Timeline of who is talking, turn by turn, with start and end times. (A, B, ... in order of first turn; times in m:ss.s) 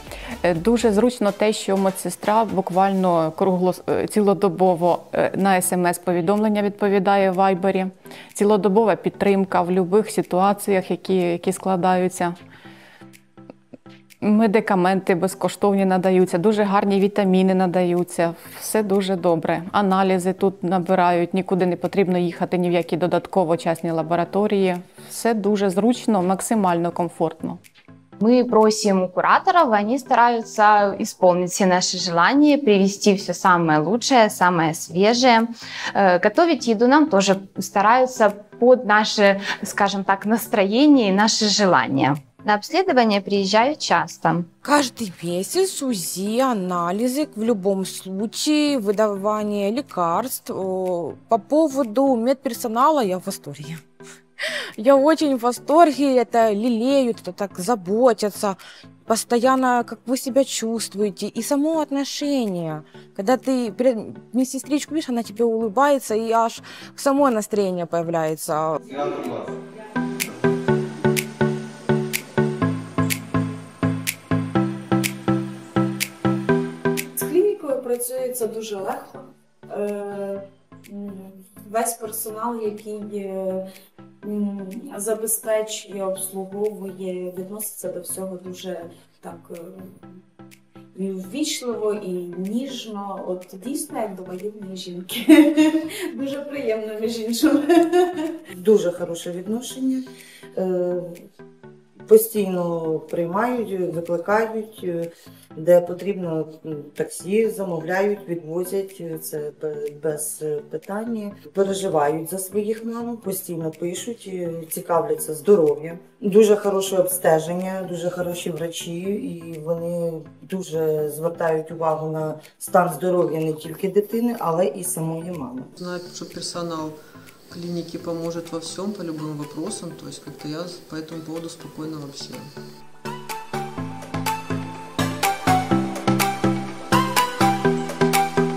0:00.4-0:12.3 A
0:14.2-0:27.6 A
0:28.2-0:44.5 B
0:44.6-0:53.8 C
0:54.8-1:08.8 C
1:09.0-1:09.4 D
1:17.0-1:23.7 D
1:24.2-1:30.2 D
1:30.9-1:38.4 D
1:38.5-1:41.2 E
1:42.0-2:05.7 E
2:05.8-2:12.5 F